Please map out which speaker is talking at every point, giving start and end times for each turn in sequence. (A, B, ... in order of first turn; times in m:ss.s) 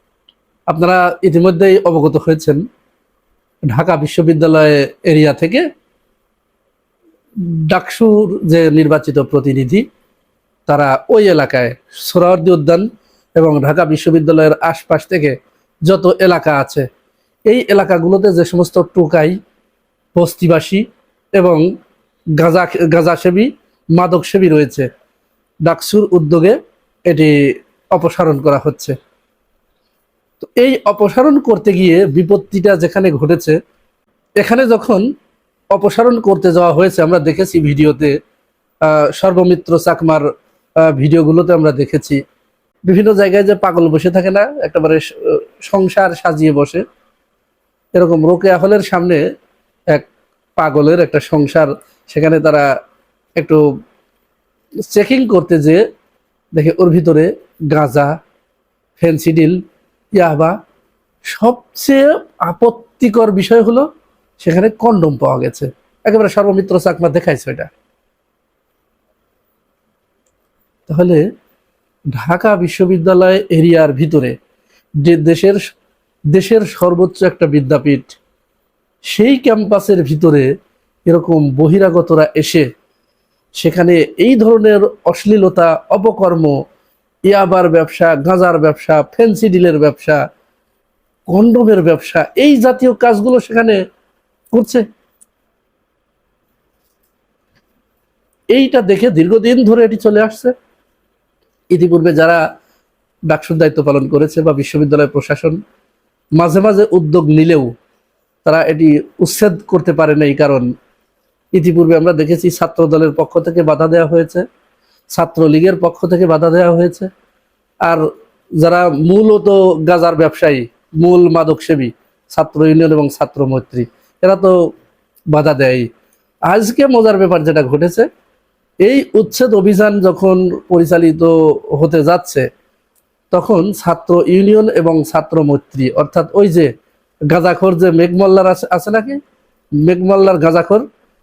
0:00.7-0:02.6 A
0:03.7-0:05.7 A
0:07.4-0:09.8 A
0:10.7-0:12.8 A
0:13.4-0:16.9 A
0:17.5-0:19.4 A
0:20.2-0:20.8 A
0:21.4-0:21.6 A
0:22.4-0:24.9 A
0:25.7-0:27.3 A
0:27.9-0:29.0 A
0:30.4-0:33.6 A
0:34.4-0:35.1 A
0:35.7-0:38.1 A
0:38.8-0:40.2 A
0:40.8-0:42.2 A
0:42.9-0:46.8 A
0:48.0-0:49.2 A
0:49.9-0:52.7 A
0:53.4-0:53.6 A
0:54.9-0:55.8 A
0:56.6-0:58.2 A
0:59.0-0:59.6 A
1:00.1-1:00.6 A
1:01.3-1:03.9 A
1:04.4-1:07.7 A
1:10.9-1:11.2 A
1:12.2-1:14.4 A
1:15.0-1:15.6 A
1:16.3-1:18.2 A
1:19.1-1:20.5 A
1:21.1-1:22.7 A
1:23.6-1:26.6 A
1:27.3-1:30.2 A
1:31.3-1:33.8 A
1:34.5-1:34.8 A
1:38.5-1:40.5 A
1:41.7-1:42.4 A
1:43.3-1:45.6 A
1:46.4-1:47.7 A
1:48.4-1:50.7 A
1:51.5-1:54.4 A
1:55.2-1:57.1 A
1:58.6-2:04.6 A
2:05.3-2:05.9 A
2:06.5-2:08.1 A
2:08.8-2:12.5 A
2:13.3-2:16.7 A
2:17.3-2:19.2 A
2:19.8-2:20.9 A